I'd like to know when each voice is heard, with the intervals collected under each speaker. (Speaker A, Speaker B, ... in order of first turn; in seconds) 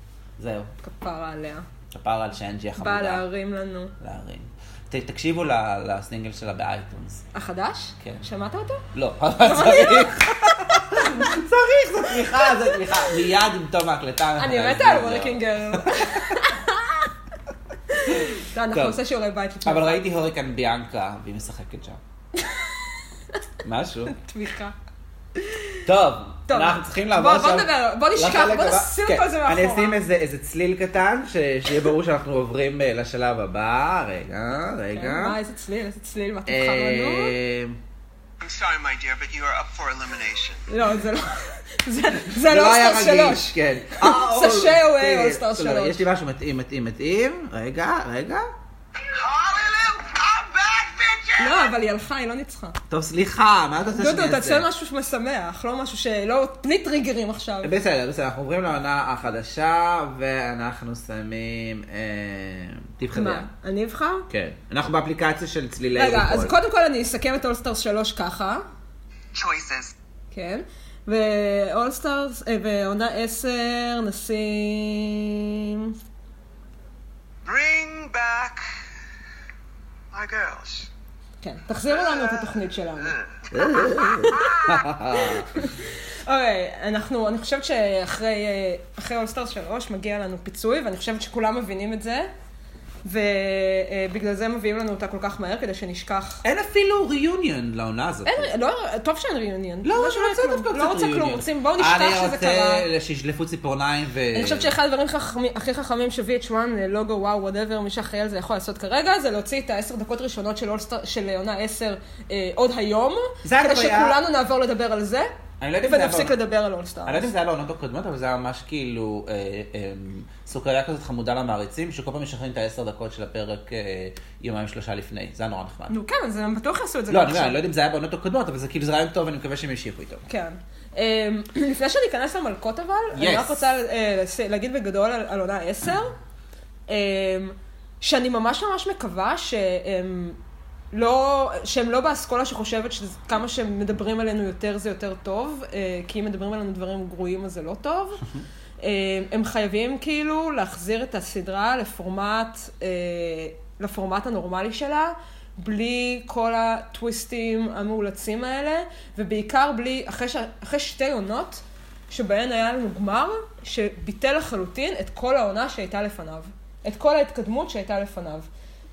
Speaker A: 0.4-0.7, 1.9-3.2, 4.0-7.3, 8.9-16.4, 18.1-19.0, 19.6-22.0, 23.6-24.1, 25.9-35.4, 36.5-37.8, 42.3-48.5, 52.9-54.7, 57.6-63.5, 64.3-66.6, 83.5-85.7, 96.4-98.5, 99.8-104.7, 113.4-114.2, 115.6-116.3, 117.1-126.0, 127.1-130.2, 133.1-133.7
Speaker B: 0.8-1.7, 2.8-3.9, 7.3-8.9, 9.4-11.3, 12.3-13.1, 14.4-17.1, 17.9-20.0, 22.4-23.4, 24.1-24.8, 25.4-25.8, 26.5-30.0, 34.9-37.4, 40.7-46.0, 51.4-52.8, 54.0-57.7, 63.1-64.3, 66.0-68.6, 70.3-75.9, 81.4-92.3, 93.0-96.4, 98.3-102.9, 104.3-115.3, 115.8-117.3, 125.9-127.6, 130.3-136.2, 136.9-140.4, 140.9-148.2, 148.8-168.5
Speaker C: 38.4-40.6, 49.1-51.7, 69.3-69.9, 77.5-78.7, 80.1-80.9, 82.0-82.5, 84.3-84.7